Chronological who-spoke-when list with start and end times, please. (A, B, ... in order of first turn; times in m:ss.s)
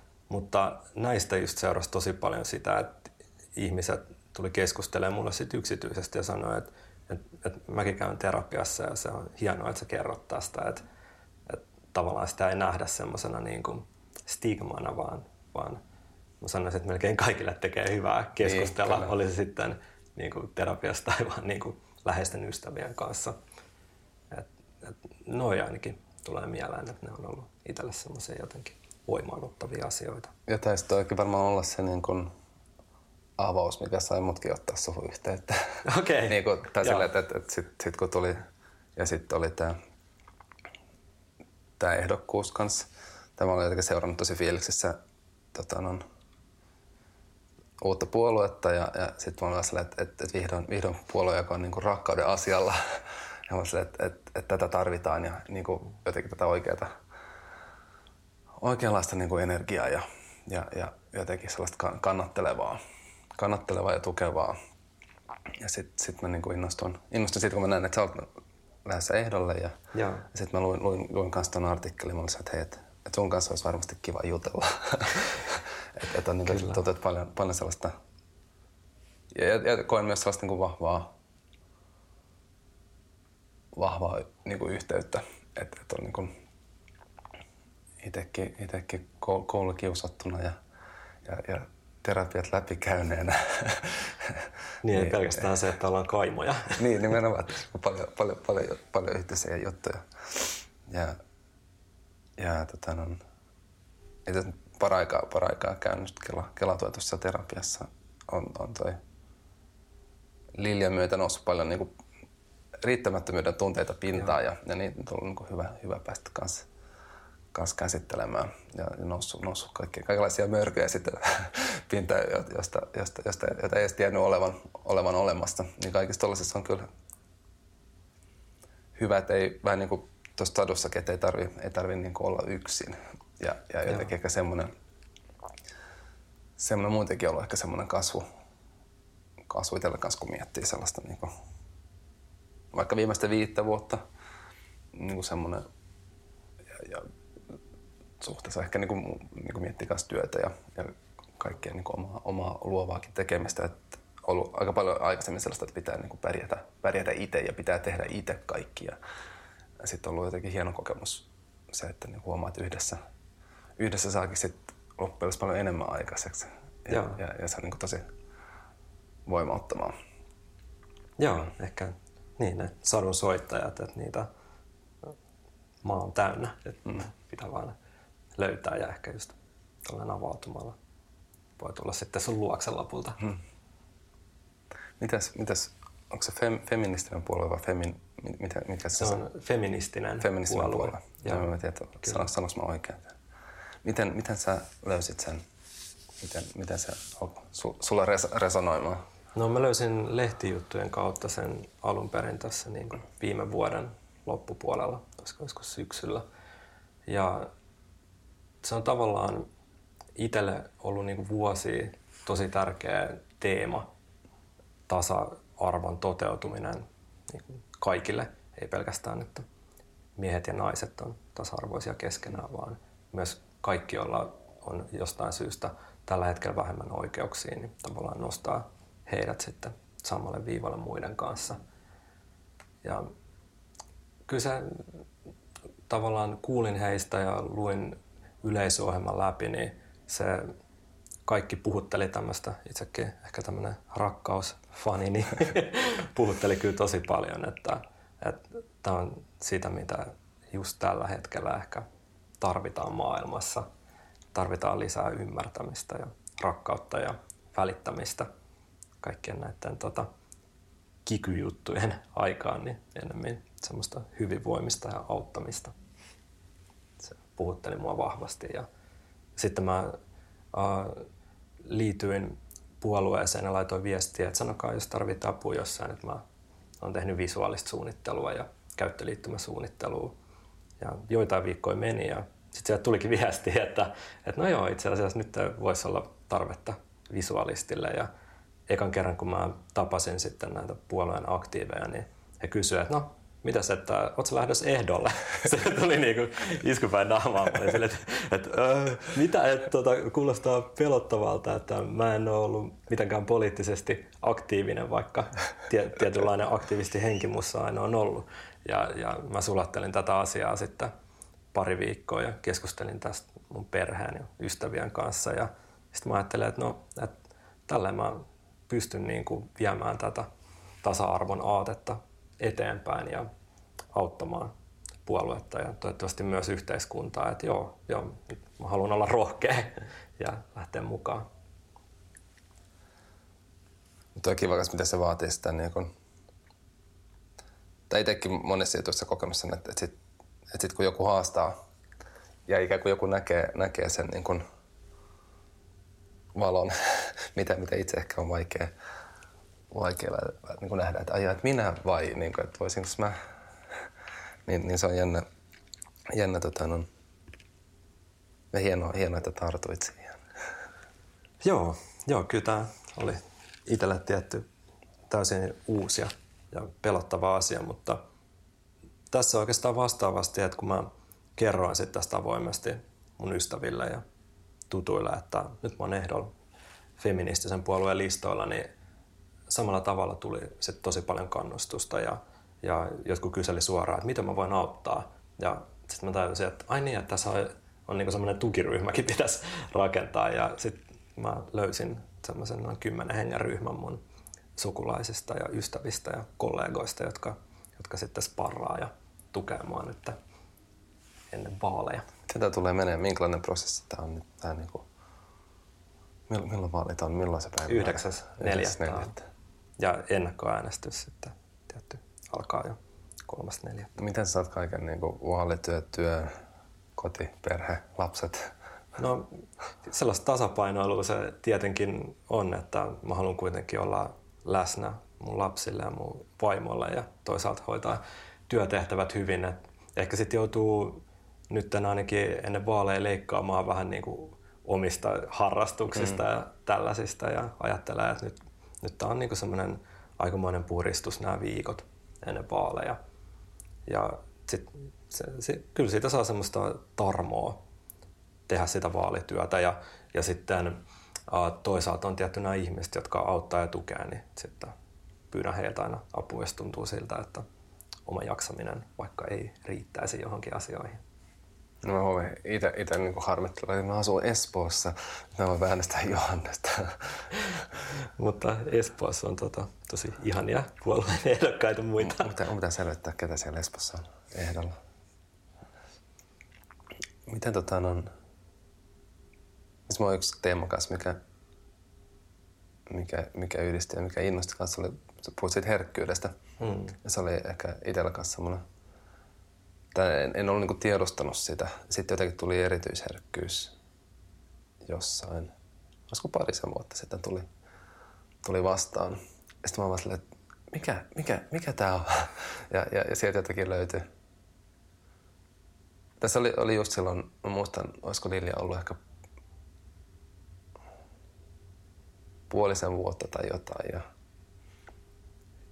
0:00.3-0:10.8 A
0:11.5-0:15.8 A
0:16.4-0:23.4 A
0:18.4-0:19.1 B
0:24.3-0:30.3 A
0:30.5-0:32.3 B
0:33.4-0:38.4 B
0:35.8-0:37.1 A
0:39.0-0:39.8 B
0:41.8-0:45.0 B
0:45.5-0:46.0 B
0:47.8-0:56.9 B
0:58.6-1:02.8 B
1:03.4-1:04.5 B
1:05.5-1:08.3 B
1:08.8-1:09.8 B
1:09.9-1:10.2 A
1:10.3-1:17.9 B
1:16.5-1:16.8 A
1:19.3-1:21.1 B
1:23.7-1:26.3 B
1:28.0-1:30.6 B
1:31.2-1:35.4 B
1:34.8-1:37.1 A
1:36.8-1:41.2 B
1:42.4-1:43.2 B
1:44.2-1:49.0 B
1:50.6-1:51.9 B
1:52.8-1:56.7 B
1:57.5-2:06.8 B
2:09.0-2:14.7 B
2:16.6-2:18.2 B
2:19.5-2:21.3 B
2:22.7-2:24.0 B
2:24.9-2:25.6 B
2:26.7-2:27.1 B
2:28.2-2:39.0 B
2:39.8-2:43.0 B
2:43.8-2:48.0 B
2:46.9-2:47.2 A
2:49.2-2:49.9 B
2:51.2-2:54.3 A
2:55.8-2:57.8 A
2:58.4-3:00.8 A
3:01.6-3:03.2 A
3:05.0-3:09.2 B
3:09.0-3:11.5 A
3:10.2-3:13.1 B
3:13.8-3:15.4 B
3:16.2-3:19.0 B
3:19.3-3:26.2 A
3:27.1-3:27.5 A
3:28.6-3:29.5 A
3:30.2-3:33.9 A
3:34.9-3:39.4 A
3:40.2-3:51.6 A
3:52.8-3:53.1 A
3:54.3-3:55.0 A
3:55.9-4:00.5 A
4:01.2-4:11.8 A
4:12.4-4:13.6 A
4:14.3-4:18.3 A
4:19.0-4:20.1 A
4:21.0-4:25.7 A
4:27.0-4:28.7 A
4:29.4-4:30.0 A
4:30.5-4:31.1 A
4:31.6-4:36.2 A
4:36.8-4:40.1 A
4:40.8-4:48.1 A
4:48.7-5:10.9 A
5:11.5-5:17.2 A
5:17.7-5:20.3 A
5:20.8-5:23.3 A
5:23.9-5:24.5 A
5:25.0-5:31.2 A
5:34.2-5:35.9 B
5:37.9-5:40.0 B
5:40.5-5:41.5 B
5:42.5-5:44.4 B
5:46.3-5:48.7 B
5:49.7-5:53.1 B
5:54.4-5:55.2 B
5:56.1-5:56.9 B
5:58.5-6:00.2 B
6:01.4-6:04.5 A
6:05.1-6:08.0 A
6:09.1-6:14.0 A
6:14.7-6:16.3 A
6:17.0-6:18.7 A
6:19.5-6:34.0 A
6:34.6-6:40.2 A
6:41.3-6:42.1 A
6:42.3-6:44.8 B
6:46.3-6:49.2 B
6:47.7-6:49.1 A
6:49.8-6:53.9 A
6:54.0-6:56.4 B
6:57.0-6:58.5 B
6:59.0-6:59.3 A
6:59.8-7:23.0 A
7:15.9-7:16.2 B
7:23.9-7:27.6 A
7:28.5-7:34.7 A
7:35.3-7:37.4 A
7:38.0-7:41.0 A
7:41.8-7:47.3 B
7:48.0-7:52.4 A
7:52.0-7:54.8 B
7:57.3-7:58.1 B
7:59.9-8:01.2 B
8:02.9-8:06.4 B
8:06.6-8:06.9 A
8:07.0-8:08.6 B
8:09.9-8:13.7 B
8:14.8-8:15.5 B
8:16.1-8:17.5 B
8:18.4-8:24.0 B
8:26.2-8:29.0 B
8:32.5-8:34.0 B